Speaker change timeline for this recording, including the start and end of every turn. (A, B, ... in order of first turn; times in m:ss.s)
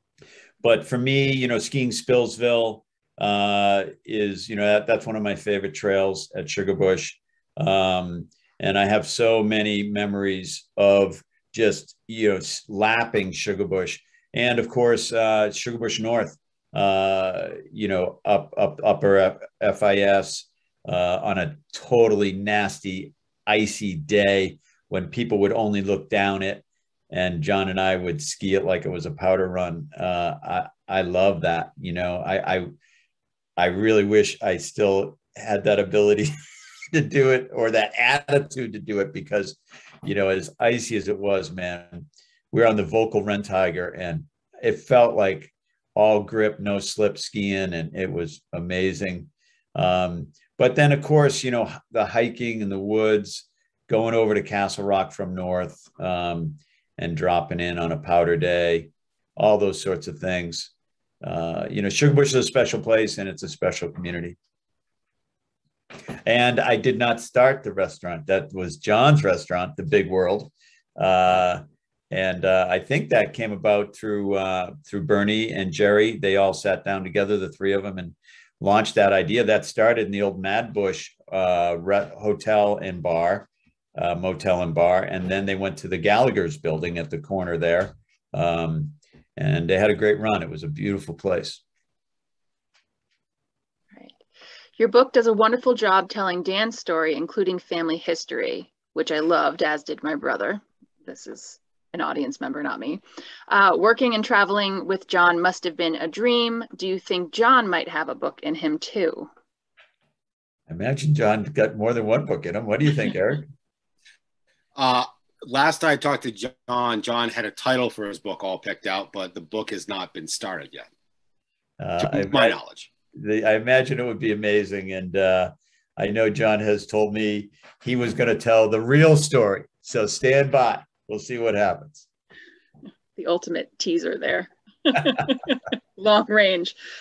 0:00.6-0:32.7 A
0:33.6-0:36.3 A
0:36.9-1:00.7 A
1:01.2-1:04.4 A
1:06.2-1:31.6 A
1:34.8-1:49.3 B
1:50.7-1:53.5 A
1:54.8-2:00.9 C
2:01.8-2:02.6 A
2:02.0-2:02.9 C
2:03.1-2:12.0 A
2:13.2-2:16.8 B